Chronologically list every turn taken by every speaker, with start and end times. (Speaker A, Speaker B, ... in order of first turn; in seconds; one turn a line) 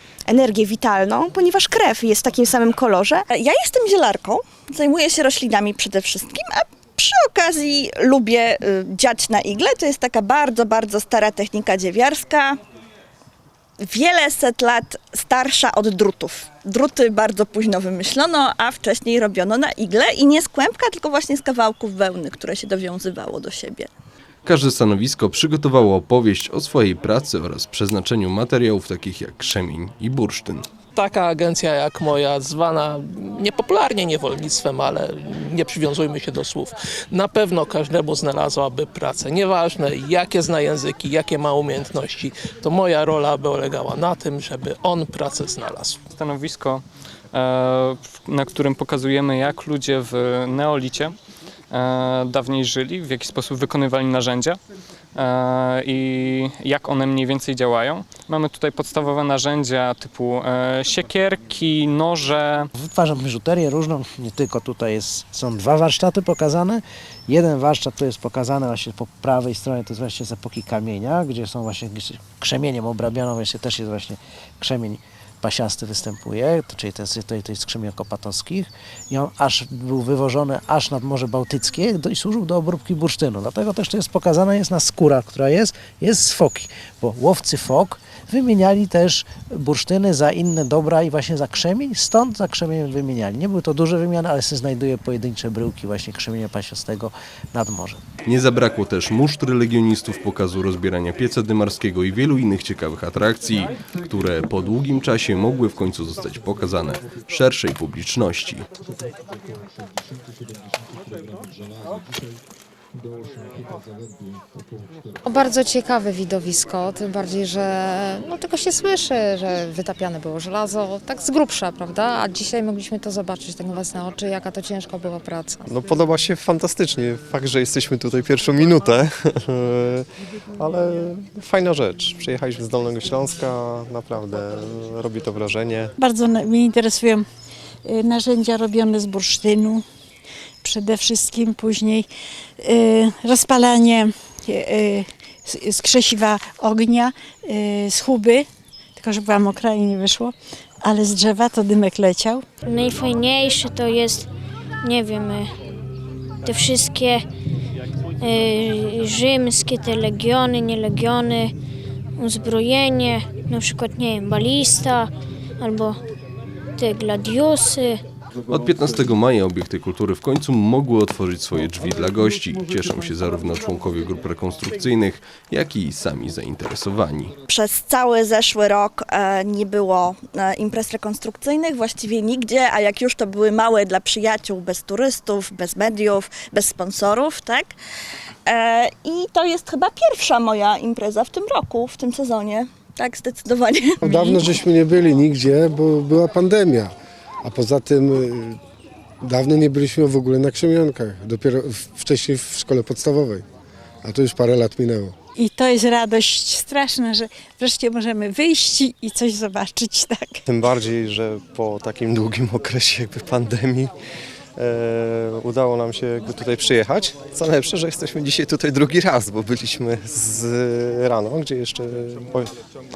Speaker A: 0.3-3.0
Speaker B: 1.6-3.1
Speaker C: 3.3-12.6
Speaker C: 13.8-23.9
Speaker D: 24.4-30.6
Speaker E: 30.9-46.0
Speaker B: 46.2-51.1
Speaker B: 51.7-54.6
Speaker B: 55.1-62.7
Speaker F: 62.7-98.0
Speaker D: 98.2-108.7
Speaker G: 115.2-125.7
Speaker H: 125.7-130.1
Speaker H: 130.6-135.9
Speaker I: 136.0-137.2
Speaker I: 137.8-139.8
Speaker I: 140.6-142.1
Speaker I: 142.6-148.4
Speaker I: 149.0-152.4
Speaker J: 152.6-154.3
Speaker J: 154.8-155.5
Speaker J: 156.4-157.2
Speaker J: 158.2-161.5
Speaker J: 162.2-166.0
Speaker J: 166.8-168.0
Speaker D: 168.5-177.3
Speaker C: 177.5-187.7
Speaker C: 188.4-194.4
Speaker A: 194.1-196.8
Speaker K: 194.1-196.9
Speaker K: 197.4-198.6
Speaker A: 197.5-198.3
Speaker K: 199.2-203.4
Speaker A: 199.3-203.4
Speaker K: 204.0-205.1
Speaker A: 204.1-205.1
Speaker I: 205.4-210.4
Speaker H: 210.5-213.9
Speaker H: 214.6-222.5